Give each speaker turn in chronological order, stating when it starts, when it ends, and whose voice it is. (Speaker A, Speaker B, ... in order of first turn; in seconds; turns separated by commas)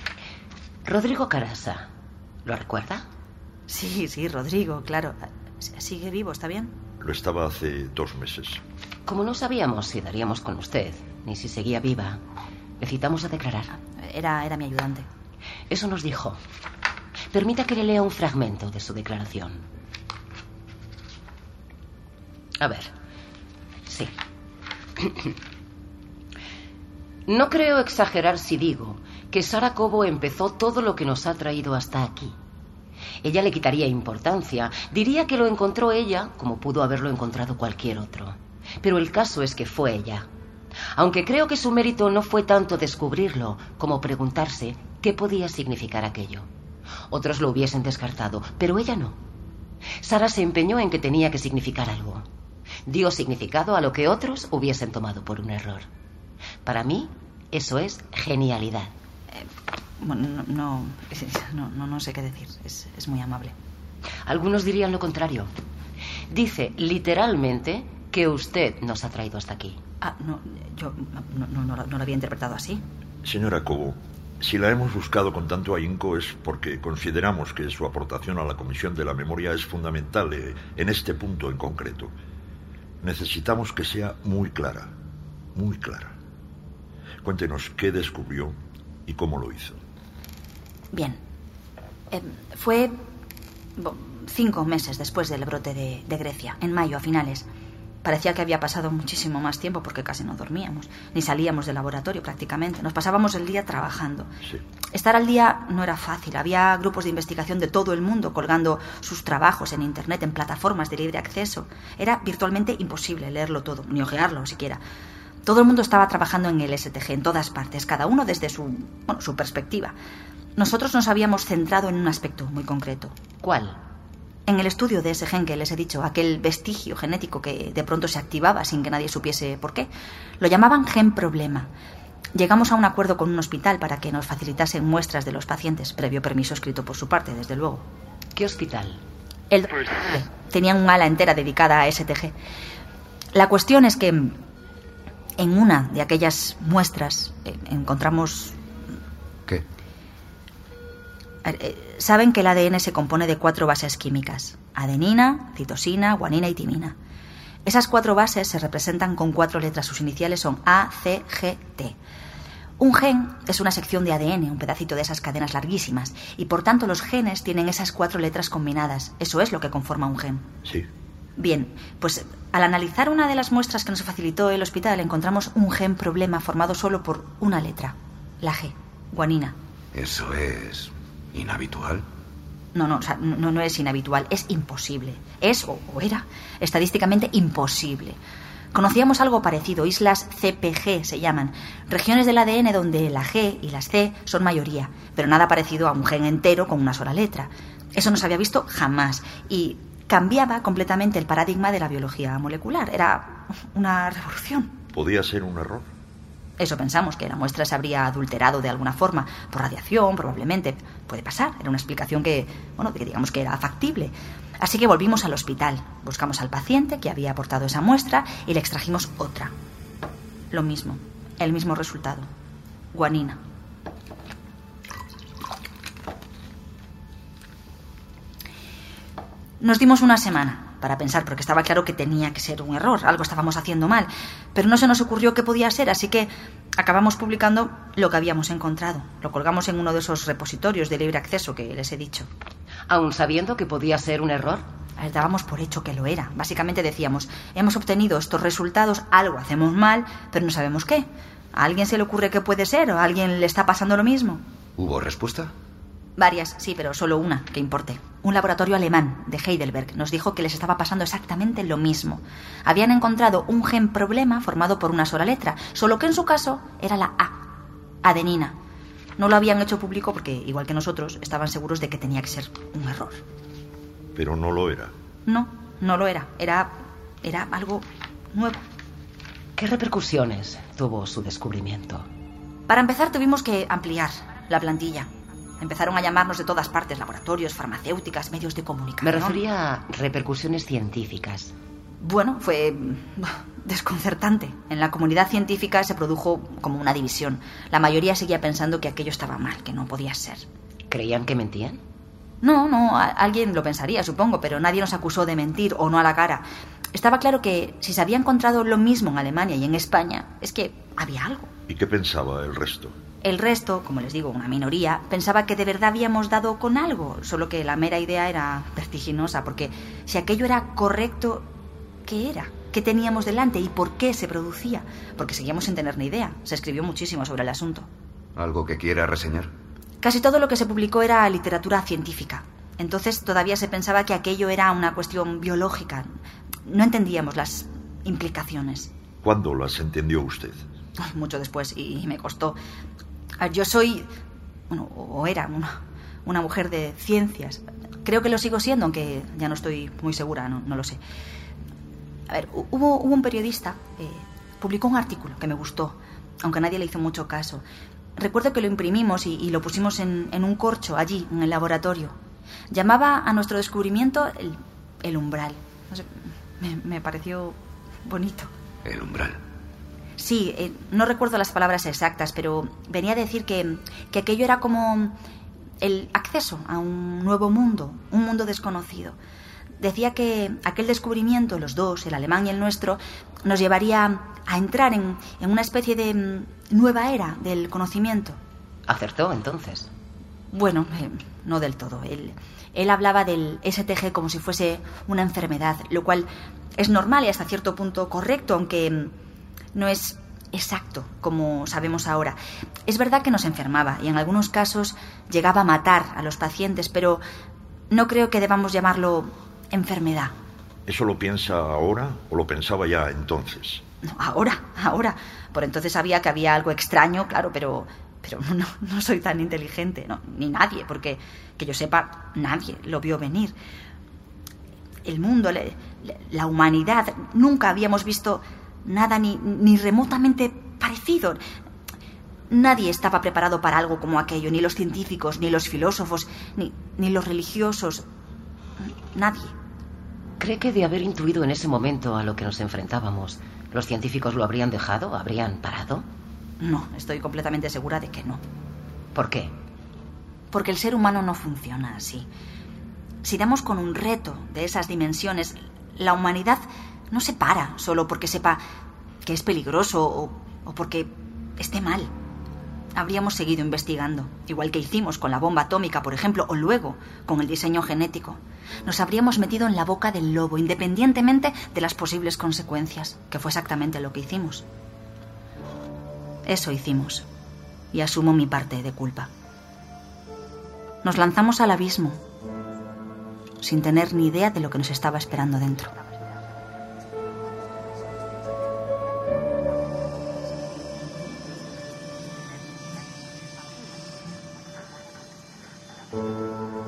Speaker A: 0.8-1.9, Speaker A: 2.4-3.0, Speaker B: 3.7-6.7, Speaker C: 7.0-8.6, Speaker A: 9.1-12.2, Speaker A: 12.8-13.7, Speaker B: 13.9-15.1, Speaker A: 15.7-16.4, Speaker A: 17.3-19.6, Speaker A: 22.6-22.9, Speaker A: 23.9-24.1, Speaker A: 25.0-25.3, Speaker A: 27.3-32.4, Speaker A: 33.2-40.3, Speaker A: 40.9-46.5, Speaker A: 47.1-49.2, Speaker A: 50.0-52.2, Speaker A: 52.9-55.9, Speaker A: 56.6-58.9, Speaker B: 60.0-63.5, Speaker A: 64.2-65.5, Speaker A: 66.3-69.8, Speaker B: 70.0-72.8, Speaker C: 73.2-82.1, Speaker C: 83.0-84.9, Speaker C: 85.5-86.1, Speaker C: 87.2-88.5, Speaker C: 89.1-89.8, Speaker B: 90.9-91.2, Speaker B: 92.1-93.0, Speaker B: 93.8-97.5, Speaker B: 98.0-104.3, Speaker B: 104.9-114.8, Speaker B: 115.4-119.9, Speaker B: 120.6-123.1, Speaker A: 123.4-123.8, Speaker B: 124.5-129.9, Speaker B: 130.4-131.7, Speaker B: 132.3-137.8, Speaker A: 138.3-139.0, Speaker B: 139.5-142.3, Speaker B: 143.3-144.4, Speaker B: 145.4-148.6, Speaker B: 151.4-156.9, Speaker B: 157.6-161.9, Speaker B: 162.8-170.4, Speaker B: 171.4-179.6, Speaker D: 179.9-182.0, Speaker B: 182.7-188.2, Speaker B: 188.7-204.7, Speaker C: 204.9-205.9, Speaker B: 206.6-219.5, Speaker B: 220.5-222.3, Speaker B: 222.9-223.4, Speaker B: 229.6-242.3, Speaker A: 242.9-244.6, Speaker B: 245.0-254.4, Speaker D: 254.8-255.5, Speaker B: 256.2-268.5, Speaker B: 269.2-273.2, Speaker C: 274.1-274.9, Speaker B: 275.2-278.6, Speaker A: 279.6-282.1, Speaker B: 282.7-285.1, Speaker B: 285.6-289.4, Speaker A: 289.0-291.5, Speaker B: 292.0-300.4, Speaker A: 300.9-301.8, Speaker B: 302.4-311.5, Speaker C: 311.7-312.9, Speaker B: 313.2-321.5, Speaker B: 322.0-327.9, Speaker D: 328.4-329.5, Speaker B: 330.0-336.1, Speaker B: 336.6-338.9, Speaker C: 339.2-340.6, Speaker B: 341.0-342.6, Speaker B: 343.4-344.1, Speaker B: 344.7-351.0, Speaker B: 352.3-357.6, Speaker B: 358.2-362.1, Speaker B: 362.7-368.5, Speaker D: 368.8-369.4, Speaker B: 370.2-375.1, Speaker B: 375.8-379.1, Speaker B: 379.8-388.4, Speaker A: 388.9-389.9, Speaker B: 390.5-396.3, Speaker B: 396.8-399.1, Speaker B: 399.7-407.2, Speaker B: 407.9-410.3, Speaker C: 410.9-413.8, Speaker B: 414.0-423.5, Speaker B: 425.0-431.4, Speaker B: 432.5-438.0, Speaker B: 438.8-439.5, Speaker A: 440.4-446.1, Speaker B: 446.6-448.4, Speaker A: 449.1-449.5, Speaker B: 450.5-452.3, Speaker B: 453.2-458.6, Speaker B: 459.2-462.1, Speaker B: 462.9-474.6, Speaker B: 476.4-477.2, Speaker B: 477.9-479.3, Speaker B: 481.0-482.2, Speaker B: 483.6-485.9, Speaker B: 492.5-493.1